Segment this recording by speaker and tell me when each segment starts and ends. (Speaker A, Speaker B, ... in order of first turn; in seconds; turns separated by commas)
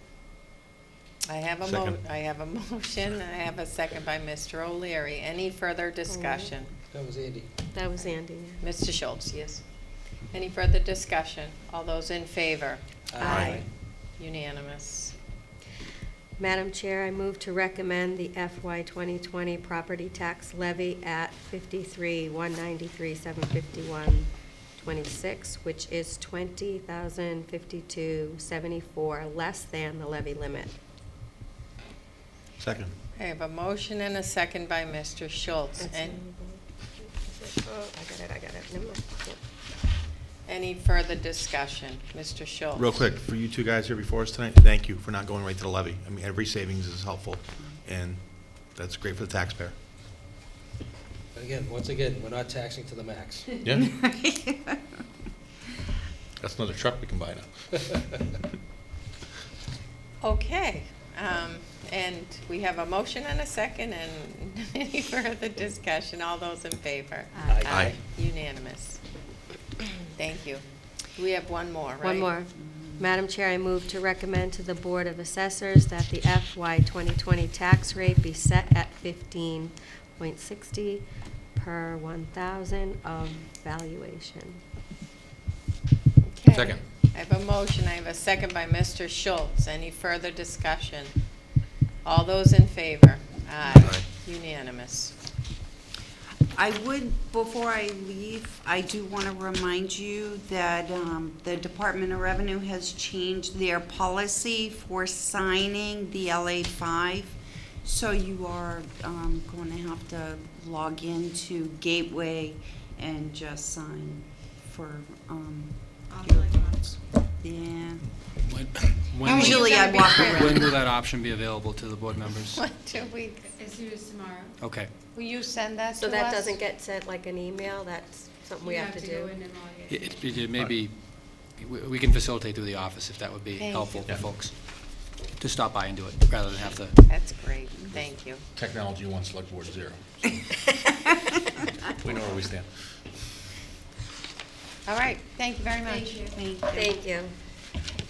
Speaker A: 1.2-6.7, Speaker B: 1.6-2.0, Speaker C: 6.1-6.5, Speaker D: 6.9-7.5, Speaker C: 7.7-8.6, Speaker A: 8.6-9.6, Speaker A: 10.3-15.1, Speaker D: 13.1-13.6, Speaker C: 13.2-13.6, Speaker B: 13.3-13.6, Speaker C: 16.4-30.7, Speaker B: 32.6-32.9, Speaker A: 33.1-36.2, Speaker C: 35.8-39.4, Speaker A: 40.5-43.0, Speaker B: 42.8-49.7, Speaker D: 51.3-53.6, Speaker B: 53.6-53.9, Speaker E: 53.8-54.8, Speaker B: 56.4-58.1, Speaker A: 60.2-69.0, Speaker D: 67.4-68.0, Speaker B: 67.7-67.9, Speaker A: 70.1-72.3, Speaker C: 72.0-81.0, Speaker E: 72.6-73.2, Speaker C: 81.5-84.6, Speaker A: 86.3-91.1, Speaker B: 86.5-86.8, Speaker A: 92.0-95.1, Speaker B: 93.7-94.0, Speaker E: 96.5-118.4, Speaker F: 116.1-116.9, Speaker G: 118.4-119.7, Speaker E: 119.2-120.7, Speaker C: 119.3-120.5, Speaker F: 119.8-120.3, Speaker G: 120.3-122.6, Speaker A: 122.5-123.5, Speaker F: 123.5-124.6, Speaker G: 124.6-124.9, Speaker A: 125.1-126.5, Speaker C: 126.0-129.3, Speaker F: 128.6-130.3, Speaker G: 129.9-137.0, Speaker A: 133.6-134.1, Speaker A: 137.1-138.4, Speaker B: 138.5-140.0, Speaker B: 141.9-142.7, Speaker A: 144.8-146.3, Speaker F: 145.9-146.3, Speaker E: 146.3-147.0, Speaker C: 146.7-147.3